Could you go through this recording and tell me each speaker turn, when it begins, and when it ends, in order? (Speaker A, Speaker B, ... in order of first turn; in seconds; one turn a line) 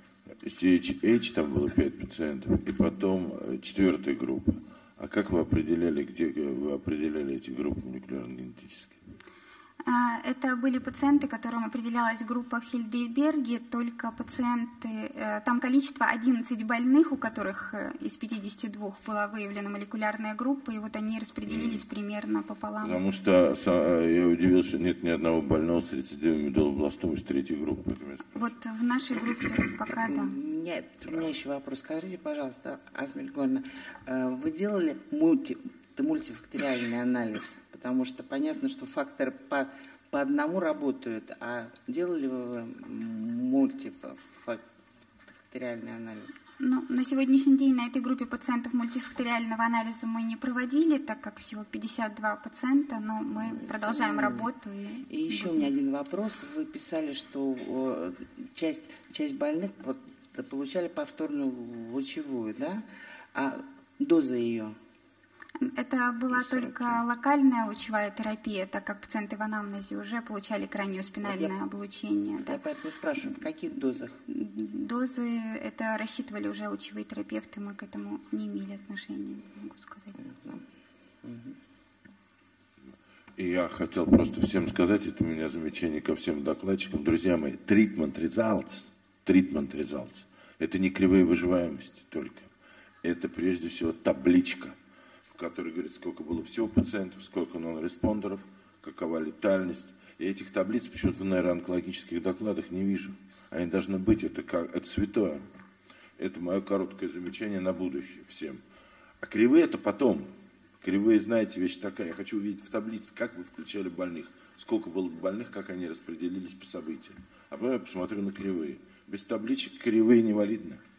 Speaker A: 0.4-9.0
Speaker B: 9.9-23.0
Speaker A: 21.5-21.8
Speaker A: 22.8-28.4
Speaker B: 28.3-30.4
Speaker C: 29.9-44.6
Speaker C: 45.4-46.3
Speaker B: 46.6-55.7
Speaker C: 53.7-54.5
Speaker C: 55.1-62.8
Speaker C: 63.3-64.8
Speaker B: 65.6-72.6
Speaker C: 66.3-67.0
Speaker C: 71.2-71.5
Speaker C: 72.5-74.1
Speaker B: 74.3-80.2
Speaker C: 80.2-80.6
Speaker C: 81.2-81.6
Speaker A: 83.4-92.5
Speaker A: 93.0-94.8
Speaker A: 95.3-105.5
Speaker A: 106.2-108.6
Speaker A: 109.2-110.3
Speaker A: 110.8-120.8